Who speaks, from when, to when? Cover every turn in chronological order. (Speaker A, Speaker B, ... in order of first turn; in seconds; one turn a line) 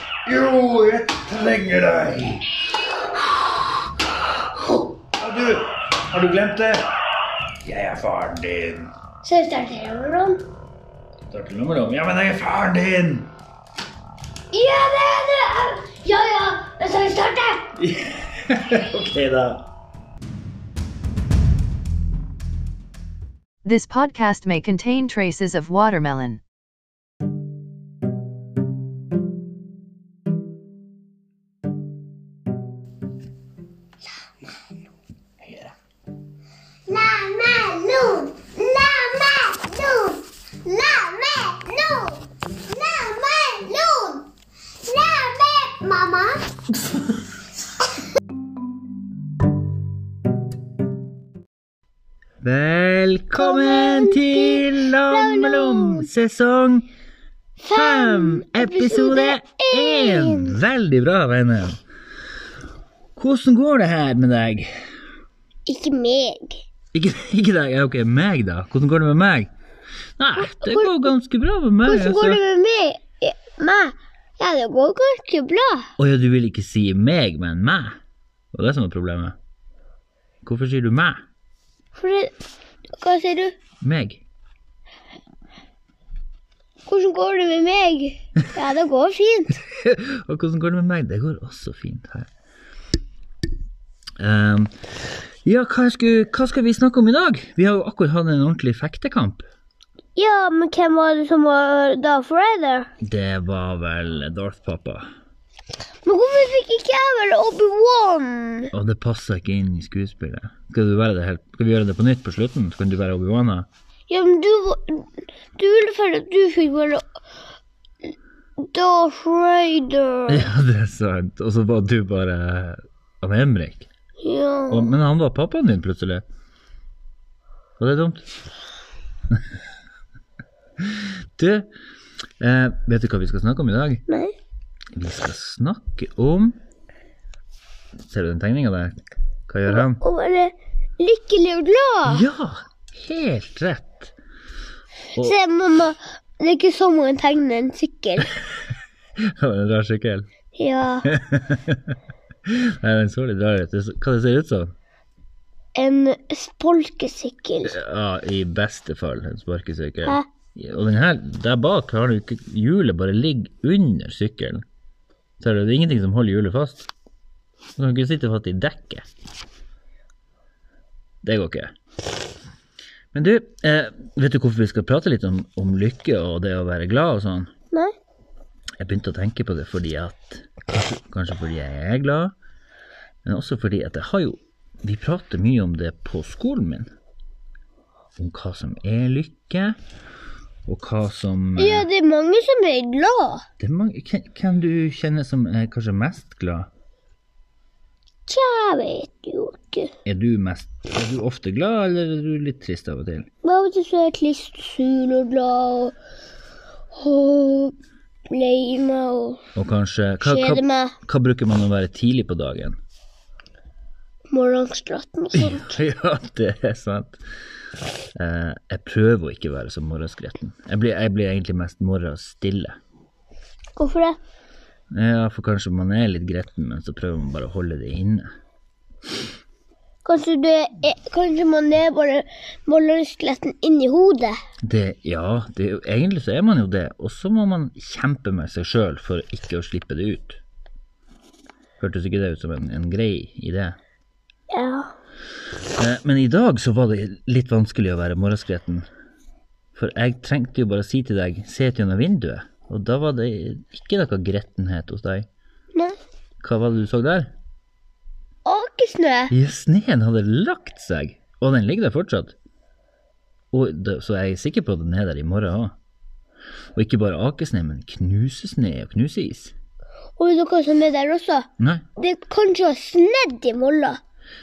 Speaker A: 0.2-2.5
Speaker A: 5.0-6.9
Speaker A: 7.6-8.9
Speaker B: 9.2-10.4
Speaker A: 11.3-13.3
Speaker B: 14.5-17.7
Speaker A: 17.8-19.7
Speaker C: 23.6-26.4
Speaker A: 35.4-35.7
Speaker B: 36.9-44.3
Speaker B: 44.8-46.5
Speaker A: 52.4-56.9
Speaker B: 53.4-56.1
Speaker B: 57.6-60.6
Speaker A: 57.7-61.8
Speaker A: 63.2-64.9
Speaker B: 65.7-66.6
Speaker A: 66.9-69.5
Speaker A: 70.2-72.4
Speaker B: 70.3-71.1
Speaker B: 71.8-75.9
Speaker A: 76.0-78.0
Speaker A: 78.5-79.4
Speaker A: 80.4-81.2
Speaker B: 82.0-82.3
Speaker B: 83.0-83.5
Speaker A: 83.8-84.2
Speaker B: 86.9-89.6
Speaker A: 89.5-92.3
Speaker A: 94.2-94.7
Speaker A: 95.4-99.5
Speaker B: 100.2-102.9
Speaker A: 103.0-105.1
Speaker B: 106.0-108.7
Speaker A: 108.7-113.7
Speaker B: 114.1-117.0
Speaker B: 118.6-120.5
Speaker A: 120.3-123.9
Speaker B: 124.2-124.9
Speaker A: 124.7-126.2
Speaker A: 127.8-128.3
Speaker A: 130.8-131.7
Speaker A: 132.4-134.0
Speaker B: 134.1-134.3
Speaker A: 134.9-136.6
Speaker A: 138.0-140.0
Speaker B: 139.7-142.2
Speaker A: 142.1-144.1
Speaker B: 145.2-148.3
Speaker A: 149.2-150.3
Speaker B: 150.6-151.1
Speaker A: 151.1-154.7
Speaker B: 155.8-157.8
Speaker A: 157.6-164.6
Speaker A: 165.4-166.9
Speaker A: 167.8-169.1
Speaker A: 171.2-171.7
Speaker A: 173.1-177.5
Speaker A: 178.8-182.3
Speaker A: 183.2-186.9
Speaker A: 188.2-189.8
Speaker A: 190.7-191.9
Speaker B: 191.6-193.4
Speaker A: 193.6-196.7
Speaker B: 198.3-199.9
Speaker A: 200.1-203.3
Speaker B: 203.4-205.9
Speaker B: 206.9-207.8
Speaker B: 208.3-209.4
Speaker A: 209.6-212.8
Speaker B: 210.2-210.9
Speaker B: 214.3-215.8
Speaker A: 215.3-217.2
Speaker A: 218.2-222.8
Speaker B: 223.8-224.2
Speaker A: 224.9-228.3
Speaker B: 230.1-234.4
Speaker A: 234.6-240.4
Speaker A: 241.8-243.8
Speaker B: 244.5-244.9
Speaker A: 245.8-248.9
Speaker A: 249.8-255.3
Speaker A: 256.4-257.3
Speaker B: 258.4-259.3
Speaker A: 259.3-262.4
Speaker A: 263.5-265.8
Speaker A: 266.8-269.5
Speaker B: 270.2-274.0
Speaker A: 271.6-271.9